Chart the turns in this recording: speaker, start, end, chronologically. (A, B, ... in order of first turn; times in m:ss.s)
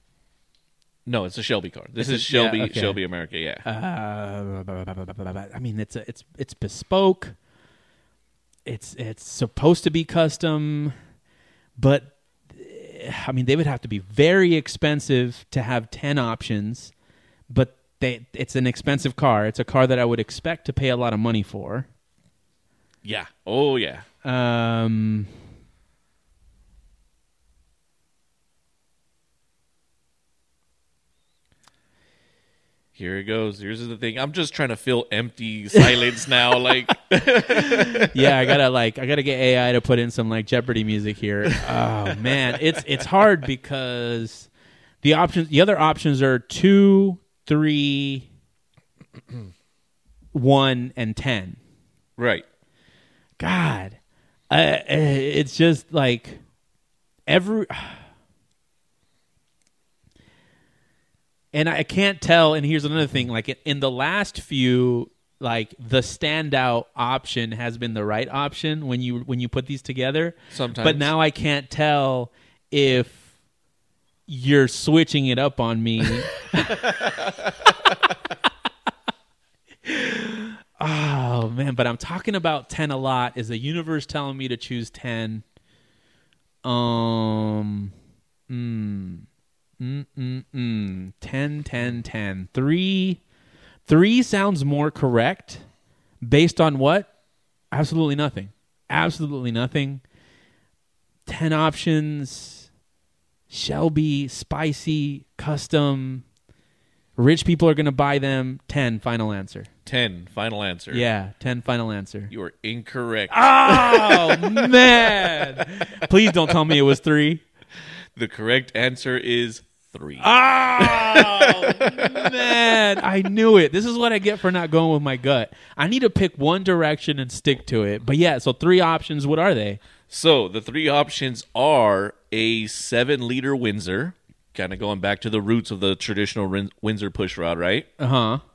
0:01.0-0:03.6 A
0:02.0-0:03.0 B
0:03.6-0:07.3 B
0:08.6-0:10.9 B
0:11.8-0:16.9 B
0:17.5-0:21.9 B
0:23.0-0:24.0 A
0:24.2-0:25.3 B
0:32.9-0:38.3 A
0:37.5-0:44.5 B
0:45.0-0:48.3 B
0:50.3-0:51.6 B
0:52.2-0:52.4 A
0:53.4-0:54.0 B
0:54.5-0:56.4 B
0:57.3-0:58.0 B
1:01.5-1:13.2 B
1:10.5-1:11.1 A
1:14.3-1:17.1 B
1:17.0-1:17.3 A
1:19.8-1:25.4 B
1:26.6-1:27.9 B
1:28.5-1:29.3 B
1:29.8-1:33.2 B
1:33.8-1:35.6 B
1:36.2-1:37.1 B
1:37.7-1:40.0 B
1:41.3-1:42.7 B
1:43.5-1:46.2 B
1:47.2-1:49.7 B
1:49.8-1:51.0 A
1:50.9-1:52.3 B
1:52.3-1:55.6 A
1:53.3-1:57.4 B
1:58.2-2:02.7 A
2:00.2-2:09.8 B
2:10.1-2:17.9 A
2:18.0-2:18.4 B